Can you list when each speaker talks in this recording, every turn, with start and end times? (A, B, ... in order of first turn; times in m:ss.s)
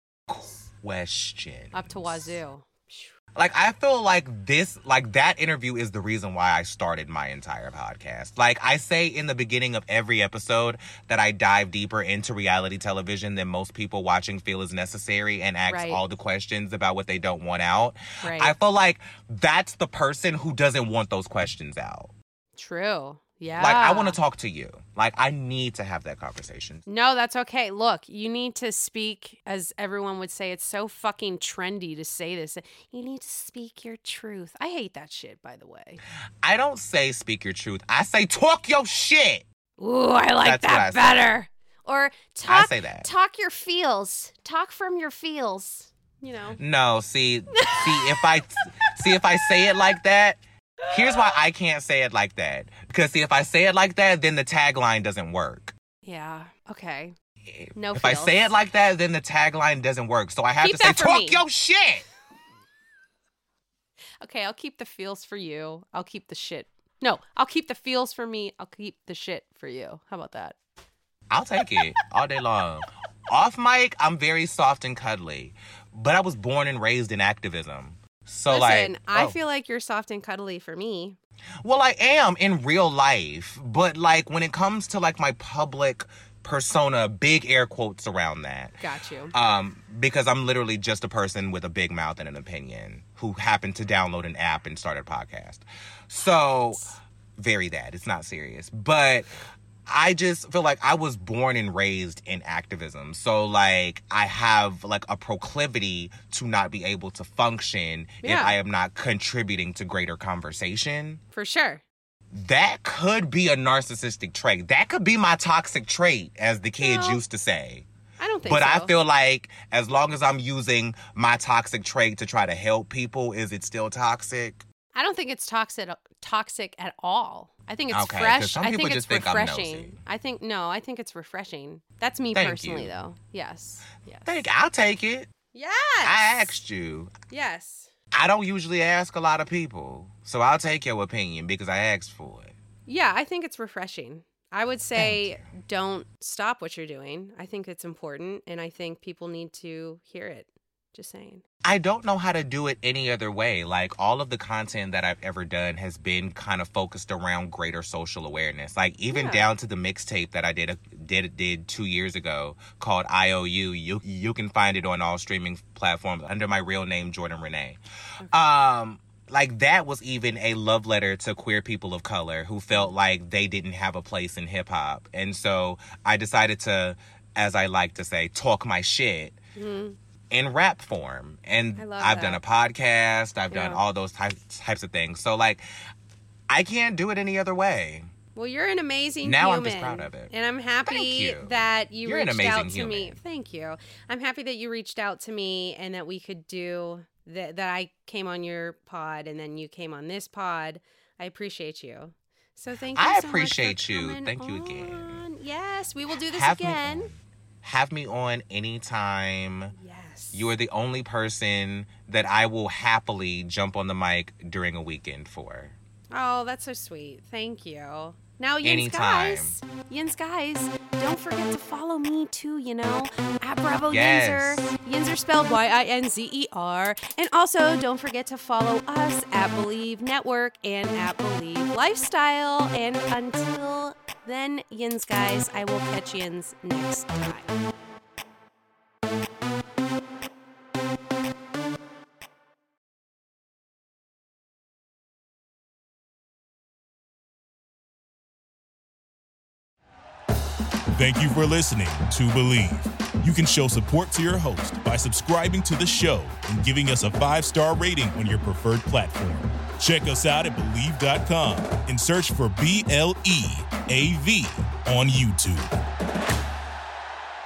0:00.3-0:02.4 A
0:01.7-0:03.1 B
0:03.3-0:22.1 A
0:15.7-0:16.0 B
0:18.2-0:18.6 B
0:22.6-0:24.2 B
0:23.6-0:26.8 A
0:26.9-0:36.0 B
0:36.4-0:39.4 A
0:39.8-0:46.6 B
0:40.4-0:41.2 A
0:42.5-0:43.1 A
0:46.6-0:55.7 A
0:47.6-0:48.3 B
0:48.9-0:49.6 B
0:56.0-0:57.1 B
0:57.5-1:02.0 A
0:57.7-0:58.5 B
1:00.6-1:01.4 B
1:04.2-1:10.6 B
1:11.3-1:19.4 A
1:18.5-1:21.2 B
1:21.6-1:28.8 A
1:28.8-1:29.3 B
1:29.3-1:39.3 A
1:39.8-1:51.2 A
1:48.2-1:48.6 B
1:51.3-1:51.8 B
1:52.3-1:57.9 A
1:56.8-1:57.2 B
1:58.2-1:58.9 B
1:58.4-2:04.6 A
2:04.9-2:14.4 B
2:07.9-2:10.0 A
2:12.3-2:12.9 A
2:14.2-2:15.3 A
2:15.5-2:16.5 B
2:16.0-2:17.1 A
2:17.3-2:17.9 B
2:18.1-2:22.5 A
2:22.8-2:31.4 B
2:24.9-2:25.4 A
2:31.6-2:47.8 A
2:39.1-2:39.4 B
2:48.3-2:59.4 A
2:59.6-3:00.0 B
3:00.3-3:05.6 A
3:01.8-3:02.4 B
3:03.5-3:03.8 B
3:06.5-3:08.1 A
3:08.3-3:27.1 B
3:09.2-3:10.3 A
3:10.9-3:13.2 A
3:22.9-3:25.2 A
3:26.3-3:29.7 A
3:29.7-3:30.5 B
3:30.3-3:35.8 A
3:36.1-3:57.5 B
3:38.6-3:39.6 A
3:43.9-3:44.7 A
4:10.9-4:25.7 C